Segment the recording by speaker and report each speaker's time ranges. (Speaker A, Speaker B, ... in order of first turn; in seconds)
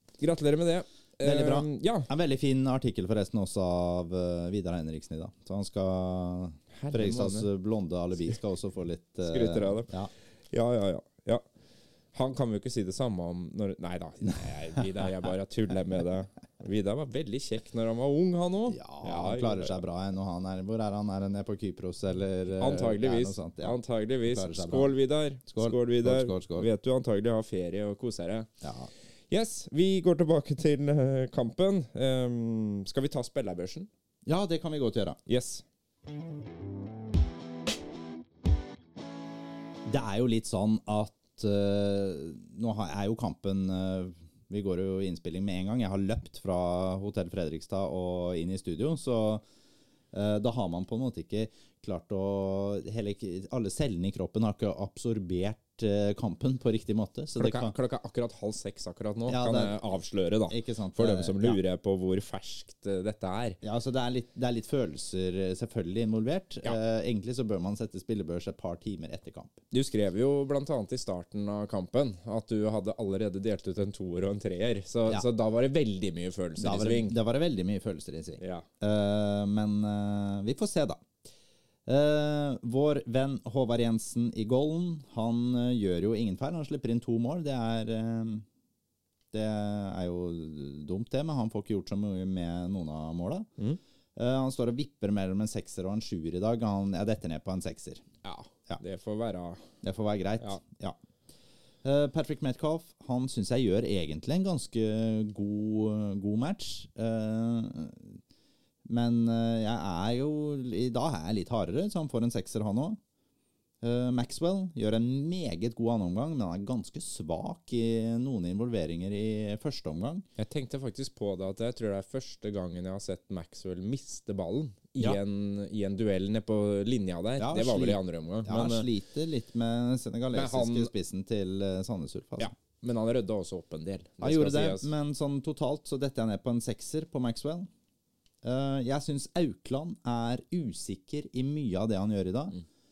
Speaker A: 0.2-2.1, 6.7-7.5, 9.2-9.9, 10.5-11.4, 12.1-19.8, 22.6-28.5, 29.3-33.9, 35.2-35.6, 57.4-63.6, 69.7-77.2, 78.4-78.7, 98.2-99.7, 120.4-128.9, 130.3-130.9, 132.4-134.9
Speaker B: 1.2-10.1, 18.7-24.9, 25.4-26.7, 28.6-28.9, 34.2-35.2, 39.9-49.4, 50.1-57.7, 59.3-59.7, 60.5-61.6, 63.6-69.6, 76.6-81.0, 81.9-88.4, 89.3-93.5, 94.2-98.0, 99.8-101.0, 101.8-108.2, 108.9-113.0, 113.8-120.2, 127.4-132.5, 134.2-137.7, 138.4-142.6